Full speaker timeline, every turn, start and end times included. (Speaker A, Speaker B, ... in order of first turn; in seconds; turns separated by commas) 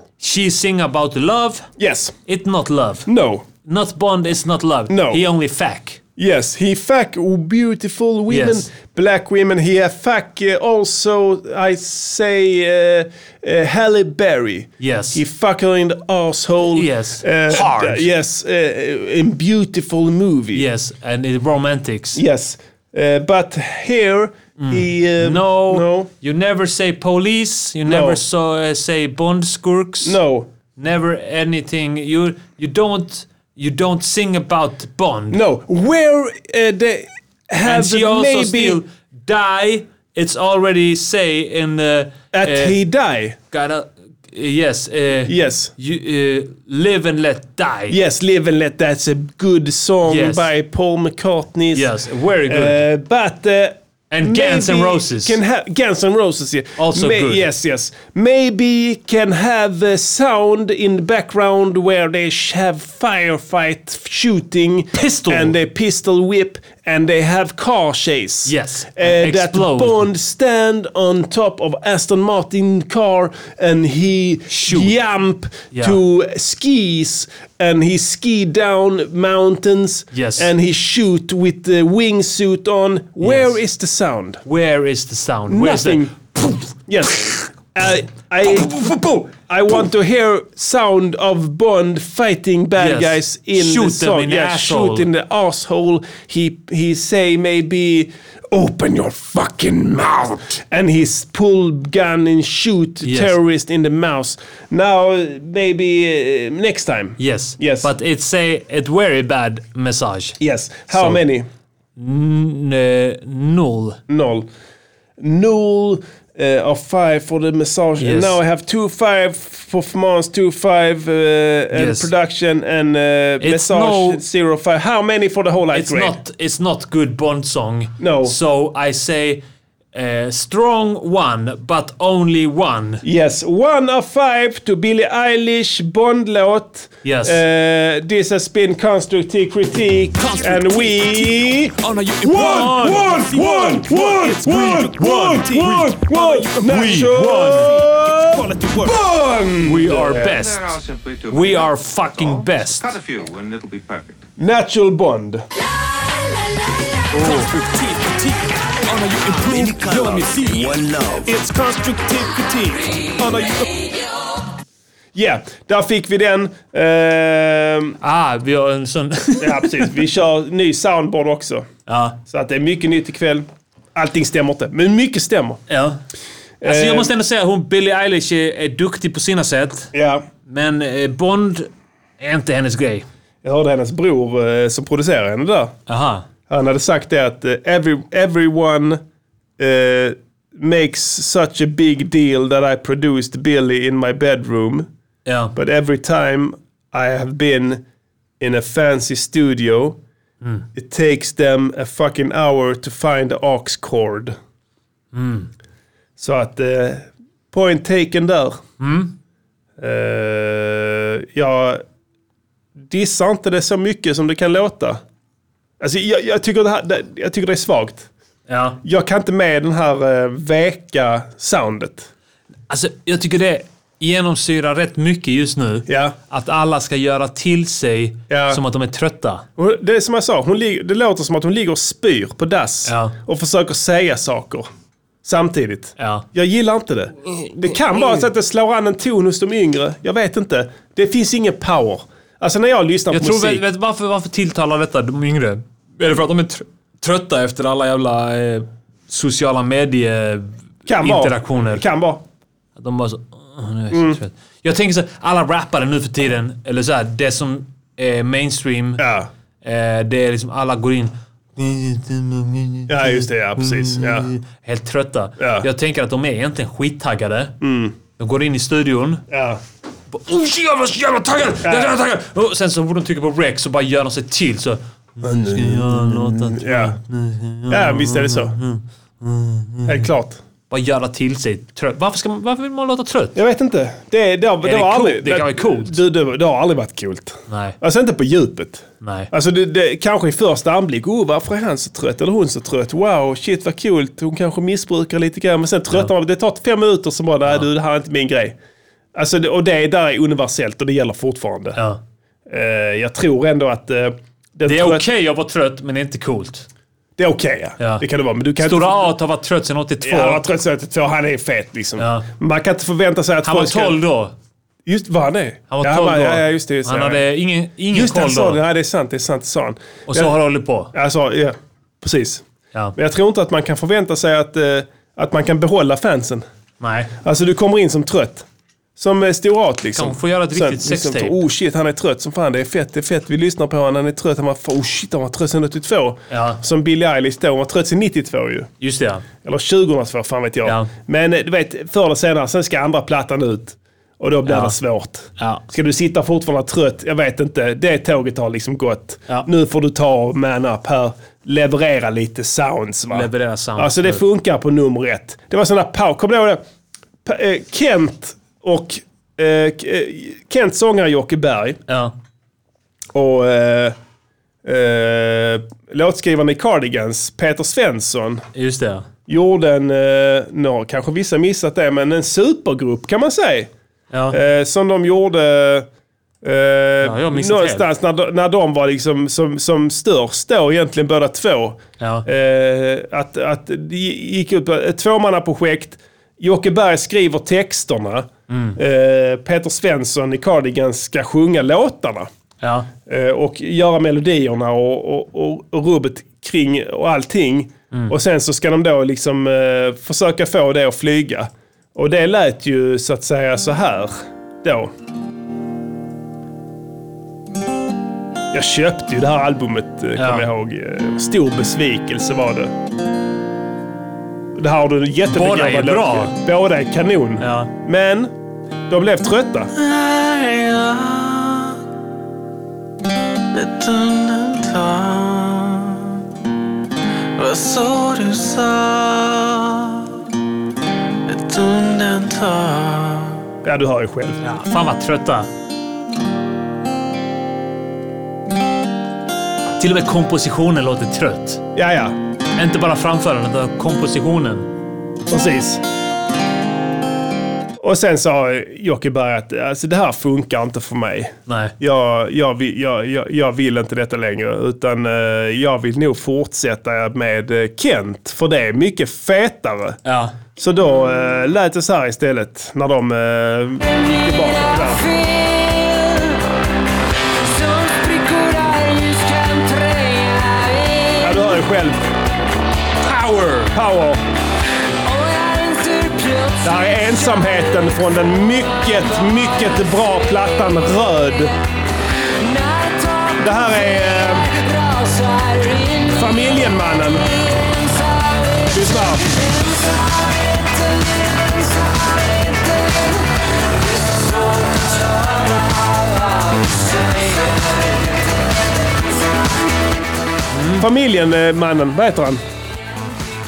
Speaker A: 0.2-1.7, Speaker B: 1.8-2.1, Speaker A: 2.3-3.1, Speaker B: 3.0-3.4, Speaker A: 3.6-6.0, Speaker B: 4.9-5.2, Speaker B: 6.2-20.6, Speaker A: 8.3-8.7, Speaker A: 14.8-15.2, Speaker A: 16.7-18.1, Speaker A: 20.5-22.2, Speaker B: 22.1-26.1, Speaker A: 24.6-30.2, Speaker B: 27.9-28.2, Speaker B: 30.0-30.5, Speaker A: 30.8-35.4, Speaker B: 35.3-38.8, Speaker A: 37.6-42.8, Speaker B: 42.3-43.4, Speaker A: 43.5-48.0, Speaker B: 45.3-45.7, Speaker B: 47.9-51.9, Speaker A: 50.0-50.5, Speaker A: 51.7-52.8, Speaker B: 52.5-84.4, Speaker A: 54.1-55.4, Speaker A: 56.8-57.4, Speaker A: 64.9-65.5, Speaker A: 68.5-70.0, Speaker A: 74.5-74.9, Speaker A: 75.7-76.0, Speaker A: 80.1-80.5, Speaker A: 83.2-83.5, Speaker A: 84.5-86.1, Speaker B: 85.5-107.9, Speaker A: 88.5-89.2, Speaker A: 92.8-95.1, Speaker A: 103.0-103.3, Speaker A: 107.2-110.4, Speaker B: 110.4-111.5, Speaker A: 110.9-111.2, Speaker A: 112.0-114.0, Speaker B: 114.1-114.5, Speaker B: 115.2-126.2, Speaker A: 118.0-118.4, Speaker A: 121.7-122.1, Speaker A: 123.4-124.2, Speaker A: 125.7-133.0, Speaker B: 128.0-128.3, Speaker B: 133.0-150.4, Speaker A: 137.0-137.4, Speaker A: 142.2-143.9, Speaker A: 144.5-147.8, Speaker A: 149.6-150.7, Speaker C: 150.2-154.2, Speaker A: 151.3-152.9, Speaker B: 154.4-155.4, Speaker A: 157.1-157.5, Speaker D: 157.3-158.3, Speaker D: 158.9-161.3, Speaker B: 161.2-163.9, Speaker B: 165.1-168.0, Speaker A: 168.0-169.9, Speaker B: 169.4-171.7, Speaker A: 171.9-172.2, Speaker B: 172.2-175.6, Speaker A: 175.7-176.0, Speaker B: 176.6-177.1, Speaker A: 176.6-179.9, Speaker B: 179.9-180.2, Speaker A: 180.5-181.7, Speaker A: 182.2-183.1, Speaker B: 183.4-185.8, Speaker A: 185.9-186.2, Speaker B: 186.5-189.0, Speaker B: 189.6-194.9, Speaker A: 195.2-195.5, Speaker B: 195.5-197.8, Speaker B: 198.4-200.0, Speaker B: 200.7-204.4, Speaker A: 205.1-205.5, Speaker B: 206.2-208.6, Speaker A: 208.8-209.1, Speaker B: 209.8-211.8, Speaker B: 212.9-215.0, Speaker B: 215.8-218.1, Speaker A: 218.5-218.8, Speaker B: 218.8-222.1, Speaker A: 222.7-229.4, Speaker B: 225.9-226.2, Speaker B: 228.3-228.6, Speaker B: 229.6-234.7, Speaker A: 232.8-233.1, Speaker B: 235.2-243.6, Speaker A: 236.0-236.2, Speaker A: 237.3-238.3, Speaker A: 243.1-251.8, Speaker B: 250.9-252.2, Speaker A: 252.8-259.0, Speaker B: 253.9-254.2, Speaker B: 259.0-259.3, Speaker A: 259.6-267.6, Speaker B: 262.9-264.3, Speaker B: 265.4-265.6, Speaker B: 267.6-267.9, Speaker A: 268.2-269.2, Speaker B: 269.3-269.6, Speaker A: 270.1-280.1, Speaker B: 271.6-272.0, Speaker B: 275.2-277.0, Speaker B: 277.7-278.6, Speaker B: 279.9-280.4, Speaker A: 280.7-283.4, Speaker B: 283.3-298.6, Speaker A: 284.6-286.0, Speaker A: 287.5-287.8, Speaker A: 289.0-289.3, Speaker B: 299.1-301.8, Speaker B: 302.5-305.0, Speaker A: 304.7-306.6, Speaker B: 307.2-309.1, Speaker A: 307.8-308.0, Speaker A: 308.6-310.4, Speaker B: 310.0-314.0, Speaker A: 312.0-312.3, Speaker A: 313.4-314.3, Speaker B: 314.9-317.2, Speaker A: 315.7-318.6, Speaker B: 317.9-320.3, Speaker A: 320.1-320.9, Speaker B: 320.9-322.4, Speaker B: 322.9-326.4, Speaker A: 326.8-327.1, Speaker B: 327.2-328.4, Speaker B: 329.0-338.7, Speaker A: 329.9-331.4, Speaker A: 336.3-336.6, Speaker A: 338.8-339.2, Speaker B: 339.4-356.6, Speaker A: 344.4-344.8, Speaker A: 345.4-345.6, Speaker A: 353.1-354.2, Speaker B: 357.2-361.8, Speaker A: 361.9-362.1, Speaker B: 363.1-363.9, Speaker B: 364.6-368.4, Speaker A: 368.5-369.1, Speaker B: 369.3-373.7, Speaker A: 374.1-374.4, Speaker B: 374.3-375.9, Speaker B: 376.4-392.3, Speaker A: 377.0-377.9, Speaker A: 382.0-382.2, Speaker A: 388.5-388.8, Speaker A: 392.6-392.9, Speaker B: 393.1-404.9, Speaker B: 408.5-412.7, Speaker A: 410.2-410.5, Speaker B: 414.6-418.3, Speaker A: 415.3-416.4, Speaker A: 417.4-417.7, Speaker B: 418.9-419.7, Speaker E: 423.7-424.1, Speaker E: 427.4-427.6, Speaker E: 431.3-432.9, Speaker B: 433.6-434.4, Speaker A: 434.4-435.5, Speaker A: 439.8-441.6, Speaker B: 441.7-442.1, Speaker A: 442.6-444.7, Speaker B: 445.3-445.8, Speaker B: 447.8-460.0, Speaker A: 451.5-451.7, Speaker A: 460.0-460.3, Speaker B: 460.6-465.0, Speaker B: 471.2-472.0, Speaker A: 473.0-473.7, Speaker B: 473.7-474.2, Speaker B: 476.6-481.5, Speaker B: 483.4-484.5, Speaker B: 486.0-487.3, Speaker B: 488.7-489.3, Speaker A: 500.5-500.9, Speaker B: 500.8-502.4